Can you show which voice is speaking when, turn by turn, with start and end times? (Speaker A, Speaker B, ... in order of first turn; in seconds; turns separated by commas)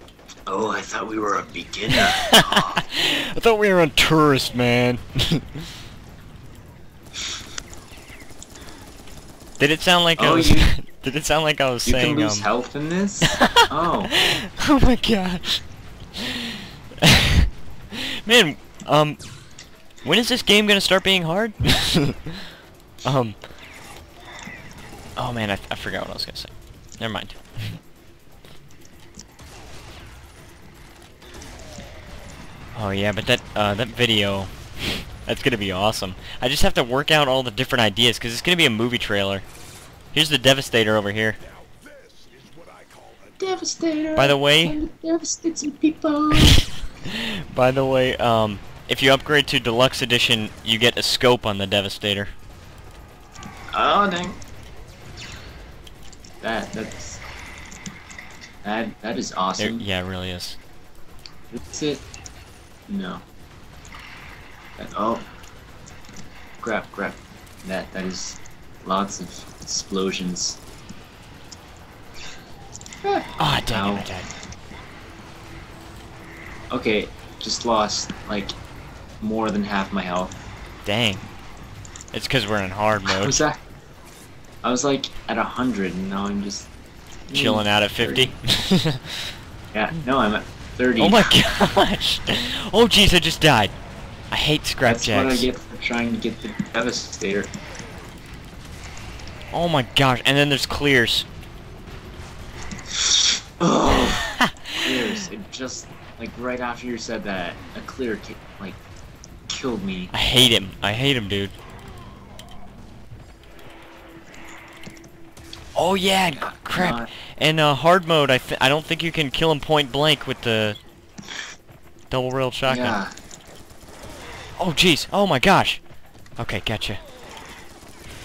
Speaker A: 0.5-2.8, Speaker B: 2.0-5.7, Speaker B: 9.6-12.5, Speaker A: 10.2-10.7, Speaker A: 11.8-14.1, Speaker B: 13.4-15.6, Speaker B: 16.1-19.2, Speaker B: 20.0-22.4, Speaker B: 23.0-23.4, Speaker B: 25.1-27.8, Speaker B: 32.7-39.4, Speaker B: 40.1-41.4, Speaker A: 43.4-46.6, Speaker B: 44.1-44.8, Speaker B: 46.3-52.3, Speaker A: 53.7-54.4, Speaker A: 56.4-57.2, Speaker A: 58.6-59.8, Speaker B: 59.6-60.6, Speaker A: 61.5-62.0, Speaker A: 62.9-63.2, Speaker A: 64.8-65.3, Speaker A: 66.6-70.6, Speaker A: 73.0-74.1, Speaker B: 73.4-74.3, Speaker A: 76.7-78.5, Speaker A: 79.2-80.3, Speaker B: 80.8-81.3, Speaker B: 82.1-83.4, Speaker A: 83.1-83.6, Speaker A: 84.6-86.7, Speaker A: 87.3-88.3, Speaker B: 87.3-89.3, Speaker A: 89.7-91.3, Speaker B: 91.0-93.7, Speaker B: 94.3-95.5, Speaker A: 94.8-97.5, Speaker B: 99.5-101.3, Speaker A: 102.9-108.8, Speaker B: 104.0-104.8, Speaker A: 109.5-110.1, Speaker B: 110.1-111.5, Speaker B: 115.7-120.8, Speaker A: 116.3-117.1, Speaker B: 122.1-123.0, Speaker A: 122.7-123.1, Speaker B: 124.6-125.8, Speaker B: 126.4-127.0